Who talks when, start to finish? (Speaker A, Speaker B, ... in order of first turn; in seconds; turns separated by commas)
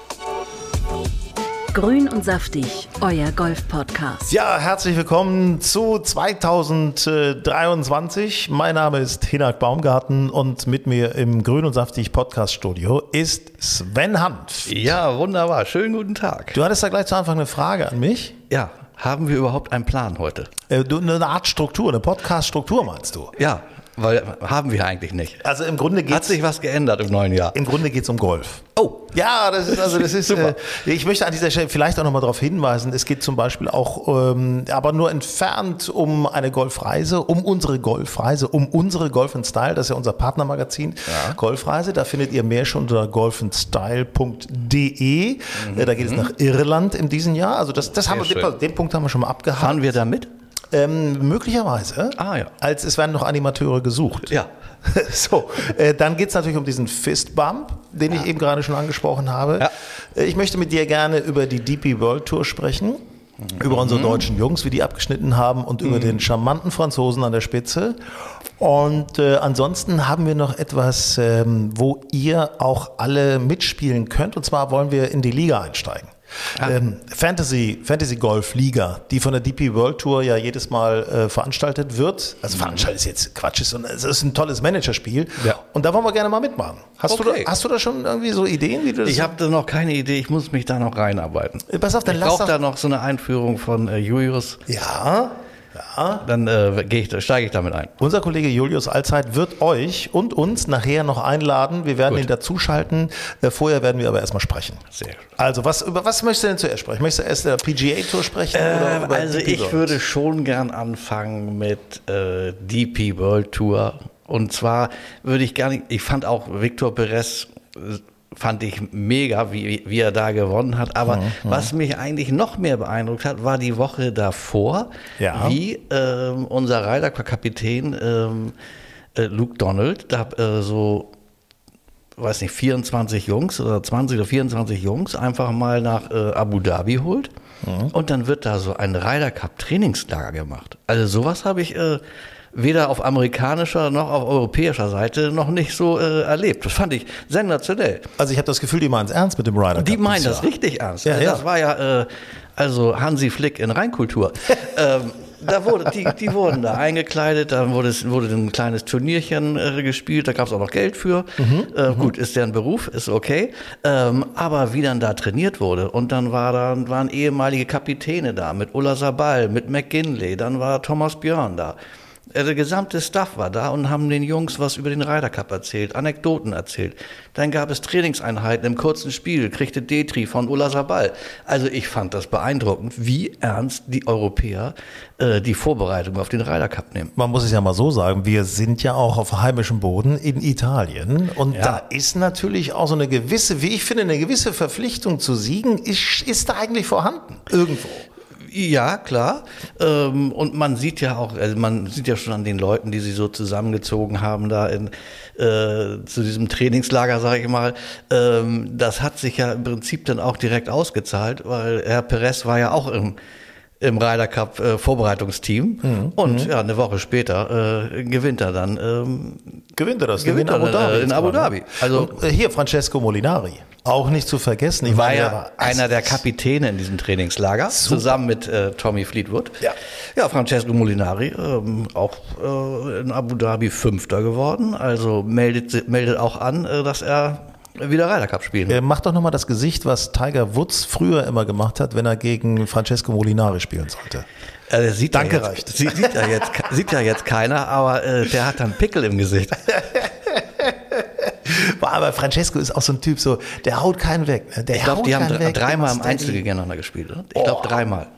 Speaker A: 1.7-4.3, Speaker B: 4.3-14.9, Speaker C: 14.7-16.6, Speaker B: 16.5-18.4, Speaker C: 18.5-20.5, Speaker B: 20.7-23.4, Speaker C: 23.4-25.4, Speaker B: 25.4-26.4, Speaker C: 26.1-27.6, Speaker B: 27.5-49.8, Speaker C: 28.8-29.1, Speaker C: 29.7-30.5, Speaker C: 41.1-41.4, Speaker C: 45.5-46.3, Speaker C: 48.0-48.5, Speaker C: 49.5-50.3, Speaker B: 50.7-63.0, Speaker C: 52.2-52.5, Speaker B: 63.5-68.0, Speaker C: 63.6-64.2, Speaker B: 68.6-89.3, Speaker C: 82.5-82.8, Speaker C: 87.1-87.5, Speaker C: 89.0-94.6, Speaker B: 91.7-92.5, Speaker B: 94.7-96.2, Speaker C: 96.2-97.9, Speaker B: 98.0-104.8, Speaker C: 104.9-105.2, Speaker B: 105.4-110.0, Speaker C: 108.5-128.6, Speaker B: 121.0-121.7, Speaker B: 125.2-125.6, Speaker C: 129.2-131.1, Speaker C: 132.2-137.3, Speaker B: 137.6-137.9, Speaker C: 137.9-148.1, Speaker B: 148.2-150.5, Speaker C: 149.8-171.8, Speaker B: 151.0-151.4, Speaker B: 161.4-162.1, Speaker C: 172.3-187.1, Speaker B: 187.2-198.1, Speaker C: 191.5-191.8, Speaker C: 198.4-213.2, Speaker C: 213.8-219.6, Speaker B: 215.8-216.5, Speaker B: 219.8-226.2, Speaker C: 220.2-222.1, Speaker C: 224.8-238.8, Speaker B: 227.7-228.1, Speaker B: 238.7-244.2, Speaker C: 244.7-249.7, Speaker B: 245.1-246.5, Speaker B: 249.7-256.4, Speaker C: 254.7-258.1, Speaker B: 257.4-257.8